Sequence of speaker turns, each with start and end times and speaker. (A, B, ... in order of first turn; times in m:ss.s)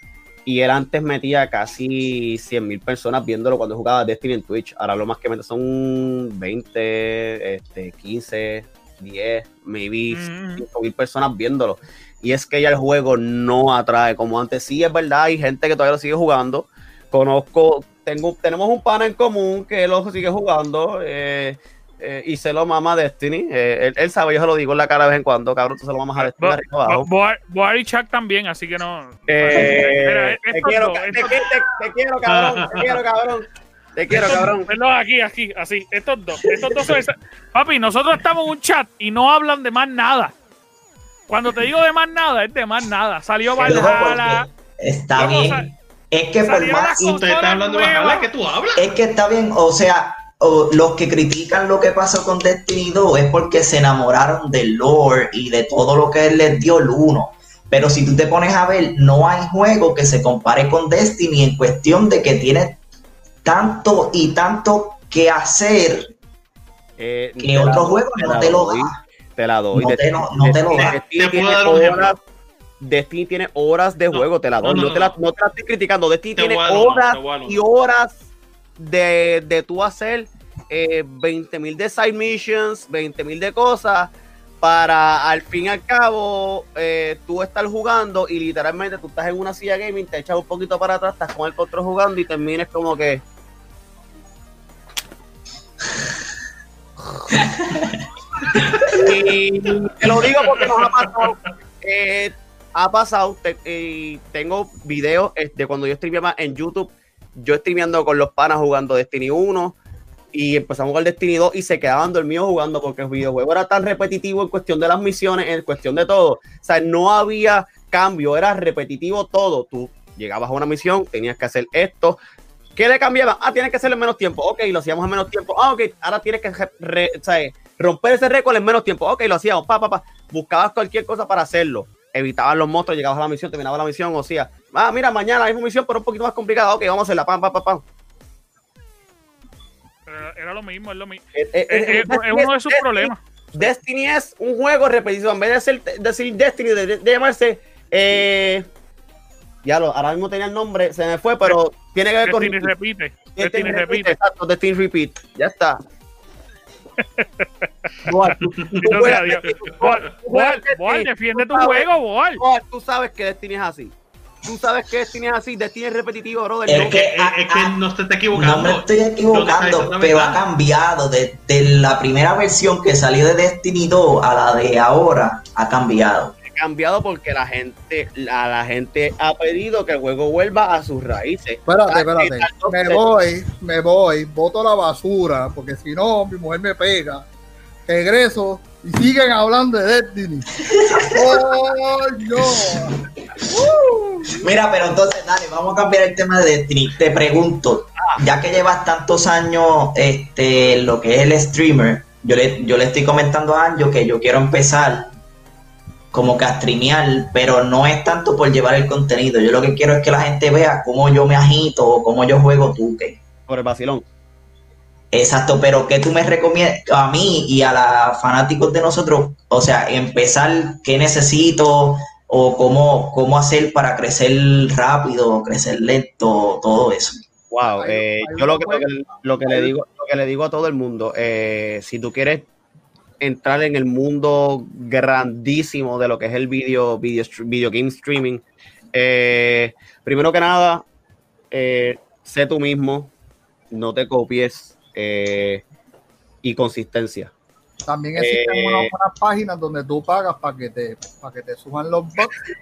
0:00.4-0:27.1 A
0:10.1-0:10.6 B
0:26.2-0:31.4 B
0:29.3-0:34.7 A
0:32.2-0:32.9 C
0:34.1-0:40.3 B
0:36.6-0:36.9 D
0:41.3-0:44.4 B
0:43.6-0:47.2 D
0:45.1-0:45.6 B
0:46.4-0:48.3 B
0:47.0-0:48.9 C
0:48.8-1:02.8 D
1:03.4-1:06.1 D
1:07.0-1:12.2 A
1:07.4-1:09.0 D
1:09.7-1:11.0 D
1:10.7-1:12.1 C
1:12.8-1:18.2 A
1:14.1-1:15.1 C
1:16.4-1:17.6 C
1:18.8-1:33.2 A
1:37.4-1:38.0 D
1:38.6-1:39.1 D
1:38.9-1:49.8 A
1:40.4-1:41.5 C
1:50.3-2:02.2 A
2:02.8-2:17.8 A
2:20.1-2:23.7 B
2:21.3-2:28.7 A
2:29.6-2:32.7 A
2:32.2-2:34.1 B
2:33.4-2:35.8 A
2:37.0-2:38.2 B
2:38.0-2:47.0 A
2:38.6-2:40.0 C
2:38.8-2:42.4 B
2:46.7-2:47.8 D
2:46.7-2:50.4 C
2:48.3-2:56.3 D
2:56.4-3:03.1 A
3:01.6-3:07.2 E
3:07.9-3:10.5 E
3:10.6-3:11.6 D
3:11.1-3:13.0 E
3:12.4-3:12.9 D
3:14.4-3:25.1 D
3:26.1-3:33.2 D
3:33.5-3:34.0 A
3:35.1-3:47.2 D
3:47.5-3:52.5 A
3:47.7-3:49.7 E
3:53.2-4:00.8 A
4:01.5-4:03.1 A
4:03.7-4:05.6 A
4:06.4-4:07.3 A
4:07.8-4:12.4 E
4:08.2-4:08.9 A